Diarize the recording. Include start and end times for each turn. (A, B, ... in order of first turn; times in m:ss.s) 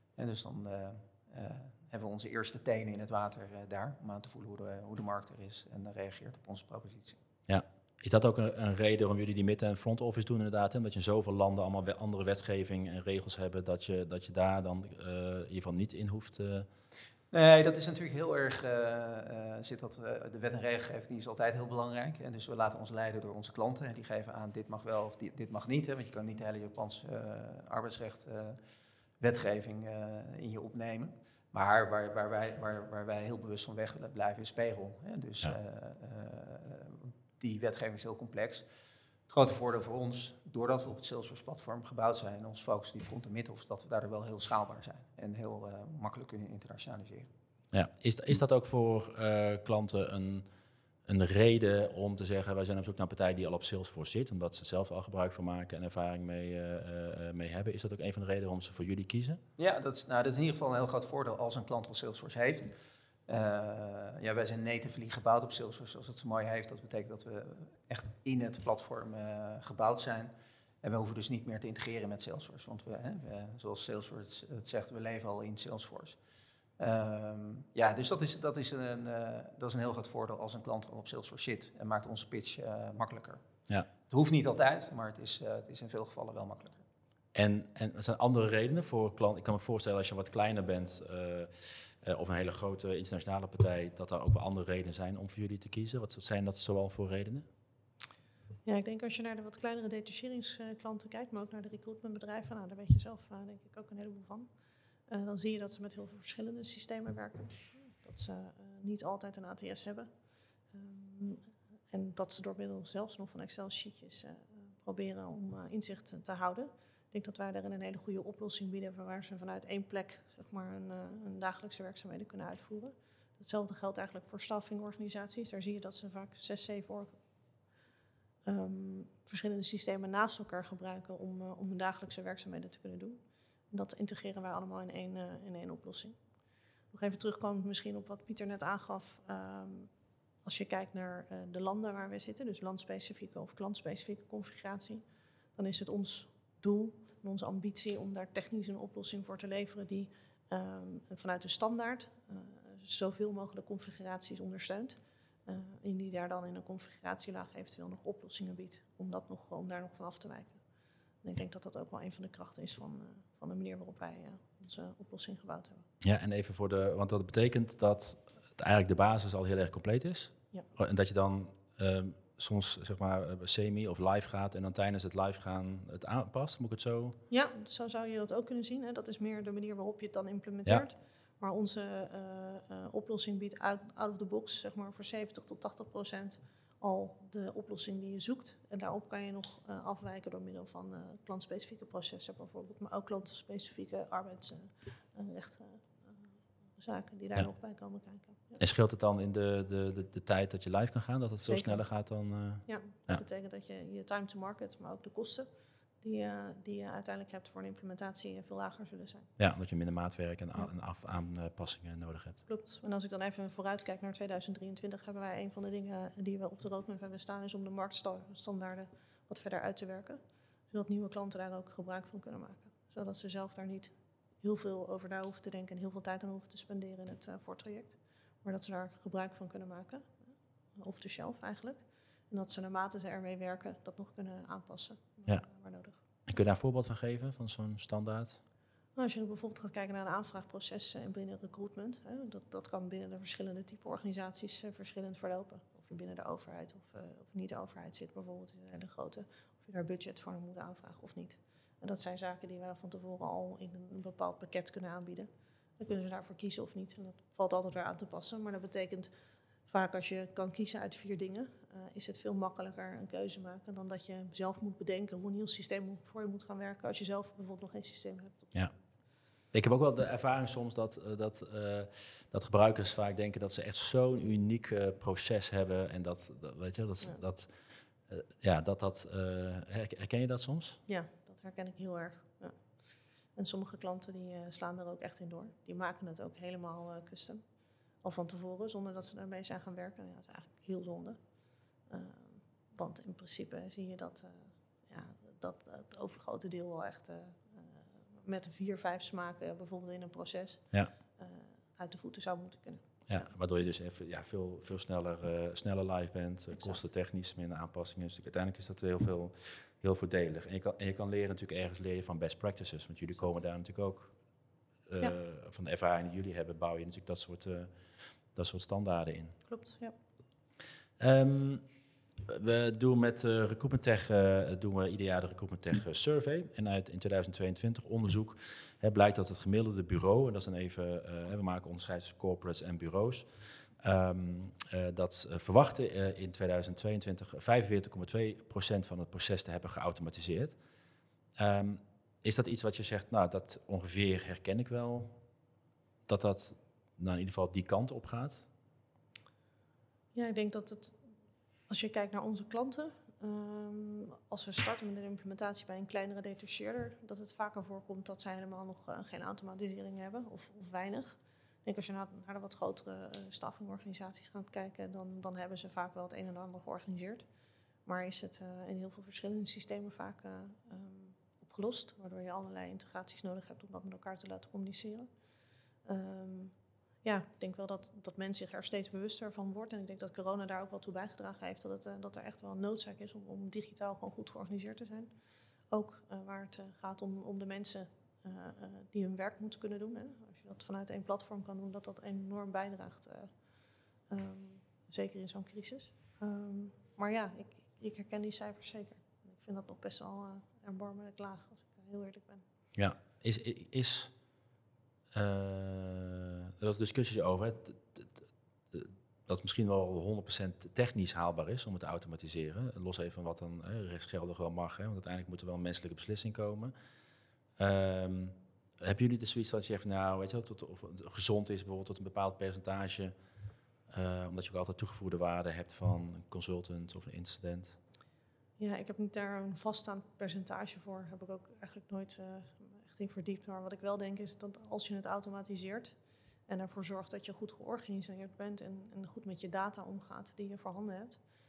0:00.2-0:07.2 A
0:07.5-0:16.7 B
0:17.3-0:28.6 A
0:29.2-0:38.7 A
0:39.3-0:47.3 A
0:47.7-0:50.5 B
0:51.1-0:59.4 B
0:59.6-1:02.8 A
1:03.3-1:10.3 A
1:10.8-1:16.2 A
1:16.8-1:23.4 A
1:24.1-1:26.8 A
1:27.4-1:37.5 B
1:38.6-1:44.5 C
1:45.1-2:07.2 C
2:08.4-2:16.2 C
2:16.9-2:19.9 C
2:20.4-2:40.6 C
2:41.2-2:45.9 C
2:46.0-2:57.2 B
2:57.3-3:18.6 C
3:18.6-3:23.2 B
3:21.4-3:21.9 C
3:22.6-3:25.5 C
3:26.0-3:29.3 C
3:29.4-3:32.4 B
3:32.5-3:56.0 C
3:56.3-3:58.4 B
3:59.0-4:19.1 C
4:19.6-4:28.6 C
4:29.3-4:37.5 B
4:38.1-4:40.8 B
4:40.9-4:47.4 C
4:48.0-4:51.2 C
4:51.8-5:03.3 C
5:03.1-5:14.1 B
5:06.5-5:06.9 C
5:14.9-5:17.8 B
5:18.3-5:19.4 B
5:19.5-5:20.0 C
5:21.0-5:21.6 B
5:22.3-5:40.6 B
5:41.4-5:45.1 B
5:46.1-5:48.4 B
5:50.1-5:51.0 C
5:51.7-6:07.3 C
6:07.8-6:15.1 C
6:15.8-6:42.4 C
6:42.8-6:44.2 B
6:45.1-6:56.7 B
6:57.6-7:03.1 B
7:03.9-7:07.8 B
7:08.6-7:21.2 C